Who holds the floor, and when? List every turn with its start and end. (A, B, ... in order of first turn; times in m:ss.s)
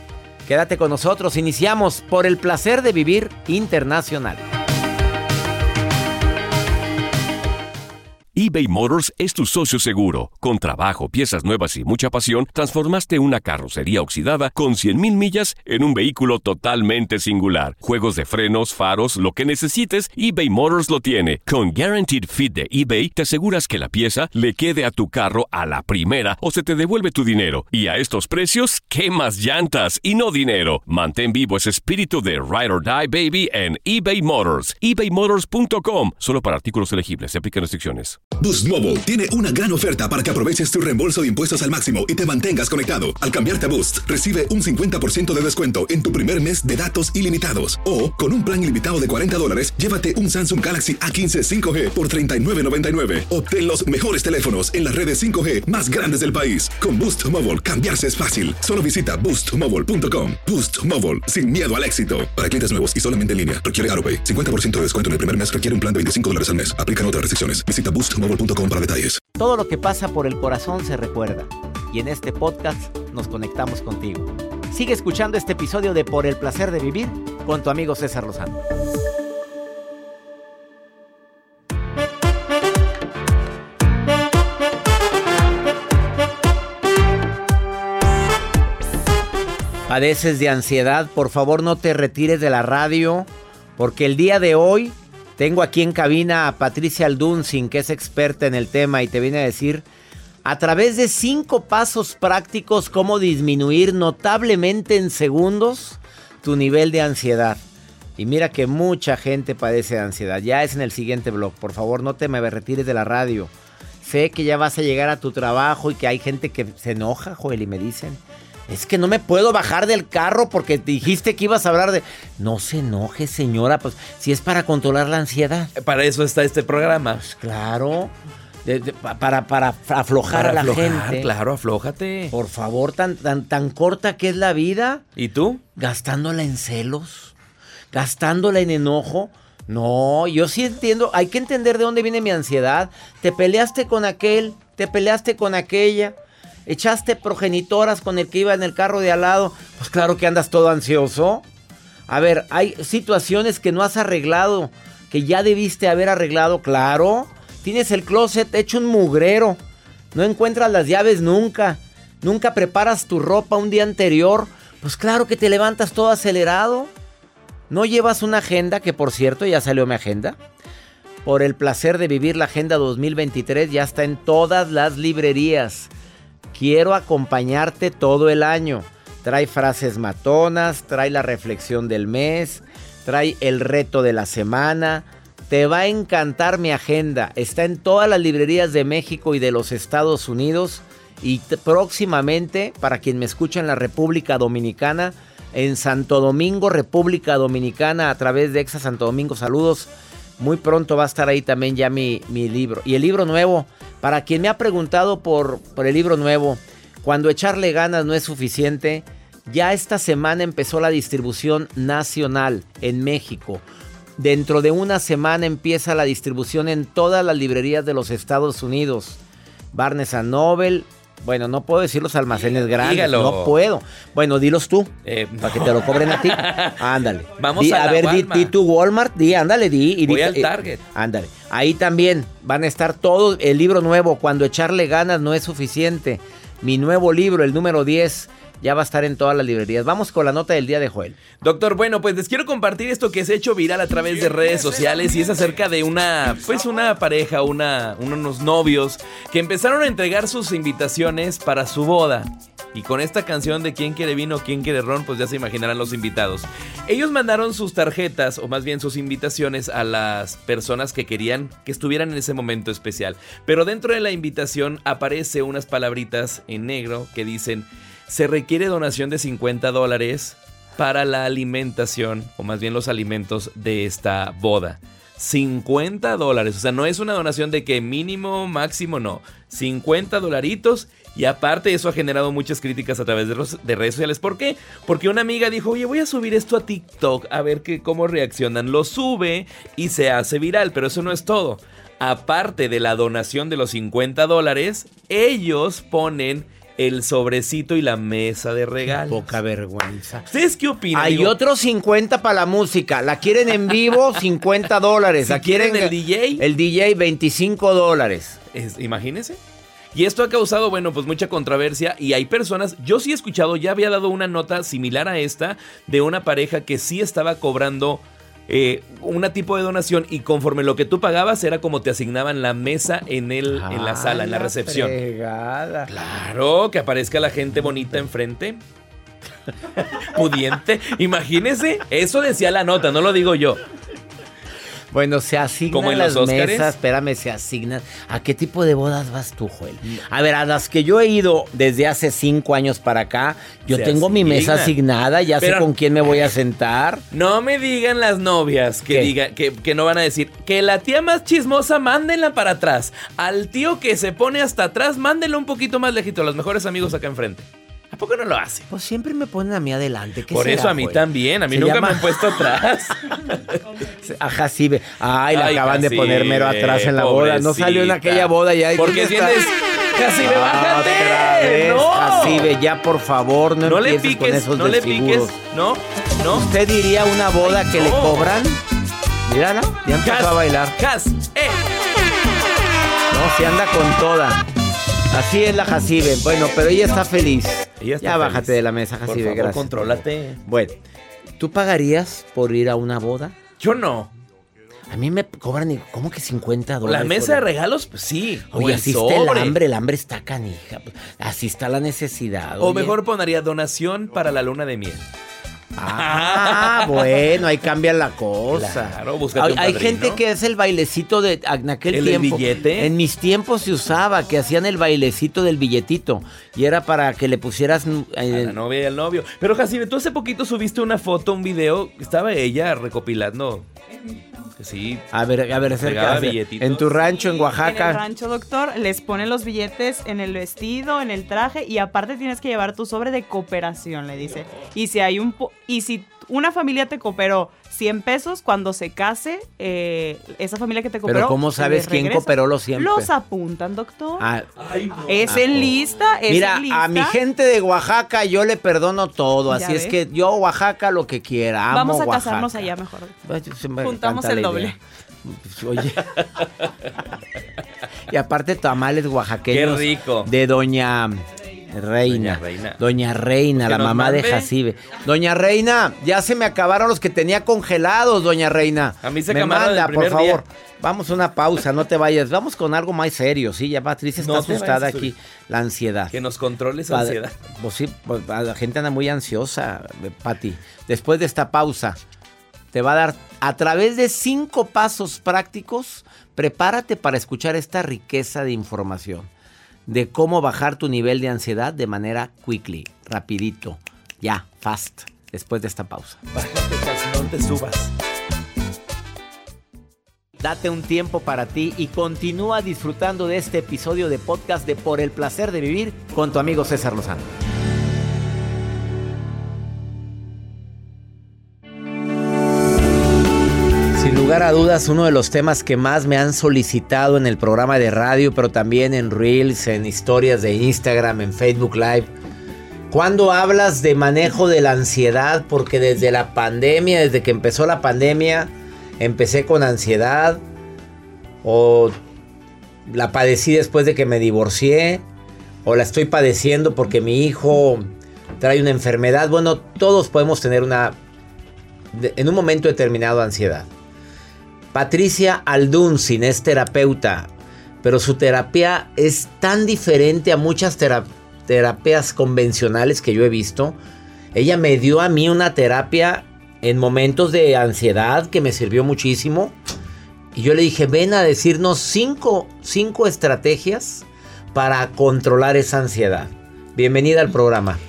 0:00.4-0:04.4 A
0:08.3-0:38.2 B
0:38.4-1:09.2 C
1:09.3-1:18.6 A
1:29.9-1:39.8 A
1:40.4-1:47.6 A
1:48.2-2:05.7 A
2:05.8-2:07.2 D
2:07.2-2:08.1 A
2:08.6-2:11.3 A
2:10.3-2:12.3 D
2:12.3-2:15.0 A
2:15.2-2:15.6 D
2:15.8-2:17.3 A
2:17.9-2:31.4 A
2:32.1-2:39.6 A
2:40.1-2:46.9 A
2:47.7-2:50.4 A
2:51.2-2:55.9 A
2:56.5-3:33.6 A
3:34.2-3:39.2 A
3:39.7-4:01.2 A
3:42.8-3:43.6 D
3:45.0-3:46.8 D
3:47.4-3:48.5 D
3:50.0-3:50.8 D
4:01.4-4:59.2 D
4:59.0-5:00.3 A
5:00.3-5:01.3 D
5:00.9-5:08.4 A
5:05.2-5:06.4 D
5:08.5-5:09.4 D
5:09.9-5:25.0 D
5:23.5-5:25.9 A
5:25.9-5:28.6 D
5:30.0-5:33.6 D
5:34.9-5:47.0 A
5:35.7-5:36.7 D
5:43.7-5:44.7 D
5:45.4-5:45.7 D
5:47.1-5:58.7 D
5:58.7-6:02.4 A
6:00.3-6:03.6 D
6:04.0-6:09.4 A
6:05.3-6:12.5 D
6:10.2-6:15.3 A
6:13.6-6:16.5 D
6:16.3-6:18.6 A
6:17.4-6:18.4 D
6:19.3-6:20.8 A
6:20.0-6:21.6 D
6:23.1-6:24.5 A
6:25.1-6:30.8 A
6:27.8-6:30.4 D
6:31.4-6:33.3 A
6:33.6-6:34.1 D
6:34.9-6:37.5 A
6:36.8-6:39.6 D
6:38.5-6:42.9 A
6:42.6-6:45.0 D
6:45.8-6:58.6 A
6:45.9-6:47.2 D
6:48.5-6:50.2 D
6:51.9-6:52.9 D
6:58.3-7:03.7 D
7:04.6-7:07.0 D
7:05.1-7:08.0 A
7:07.2-7:24.3 E
7:21.0-7:23.1 A
7:24.2-7:24.5 A
7:24.6-7:25.1 D
7:25.1-7:27.2 E
7:25.2-7:25.7 A
7:26.3-7:32.7 A
7:29.5-7:30.0 E
7:31.7-7:33.1 E
7:33.2-7:36.1 A
7:33.8-7:34.8 E
7:38.1-7:56.1 A
7:39.5-7:40.3 D
7:42.0-7:42.8 D
7:43.6-7:44.5 D
7:49.0-7:50.4 D
7:54.2-7:55.1 D
7:56.1-7:57.3 D
7:56.9-8:02.0 A
8:02.7-8:09.3 A
8:09.9-8:16.2 A
8:16.3-8:17.9 D
8:20.4-8:27.3 A
8:33.9-8:42.1 A
8:42.9-8:50.4 A
8:51.4-8:51.9 A
8:52.8-8:55.0 A
8:55.6-9:01.0 A
9:01.9-9:03.7 A
9:04.7-9:07.3 A
9:07.8-9:13.8 A
9:14.3-9:19.5 A
9:20.3-9:27.8 A